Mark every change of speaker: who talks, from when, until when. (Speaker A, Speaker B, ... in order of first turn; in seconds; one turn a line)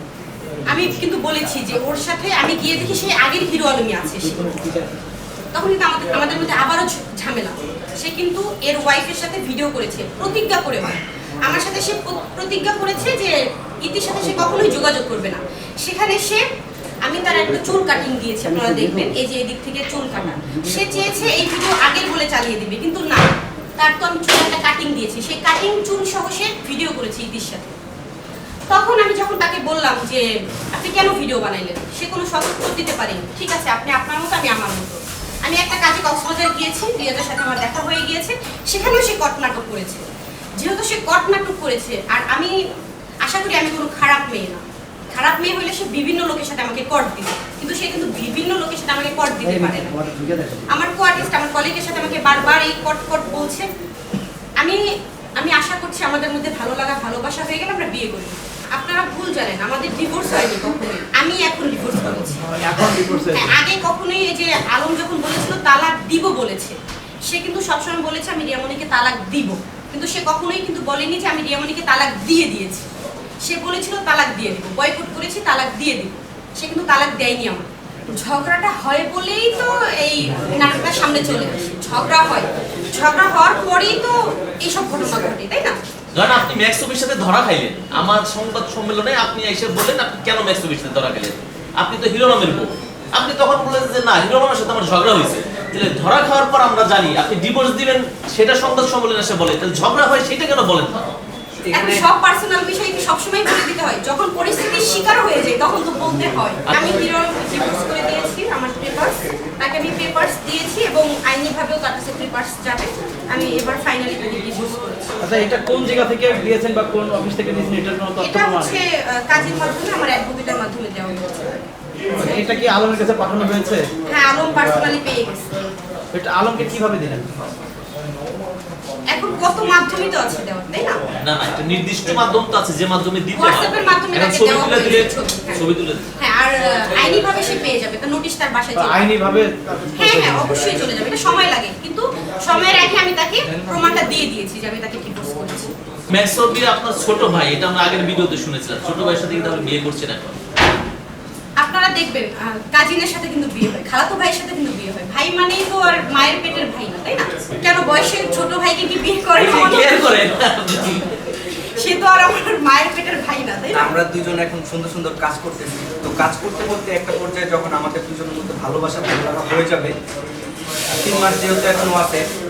Speaker A: 0.7-4.5
Speaker B: 4.5-4.8
Speaker A: 5.5-16.4
Speaker A: 17.0-27.7
Speaker B: 18.7-19.0
Speaker A: 28.7-40.0
Speaker A: 40.6-42.6
Speaker A: 43.2-50.0
Speaker B: 49.6-50.6
Speaker A: 50.7-53.7
Speaker A: 55.4-62.4
Speaker B: 62.5-63.5
Speaker A: 63.1-72.8
Speaker A: 73.4-85.8
Speaker C: 86.1-101.0
Speaker C: 101.7-102.0
Speaker A: 101.7-115.1
Speaker B: 115.2-118.7
Speaker A: 118.2-122.6
Speaker B: 122.2-123.9
Speaker A: 124.1-125.5
Speaker B: 126.1-127.3
Speaker A: 129.1-131.0
Speaker C: 131.2-136.1
Speaker A: 133.3-135.6
Speaker A: 136.2-139.1
Speaker B: 138.7-140.5
Speaker A: 140.0-145.7
Speaker C: 146.1-150.4
Speaker A: 151.6-160.1
Speaker C: 159.3-161.2
Speaker A: 161.7-163.9
Speaker D: 163.7-169.9
Speaker D: 171.0-172.2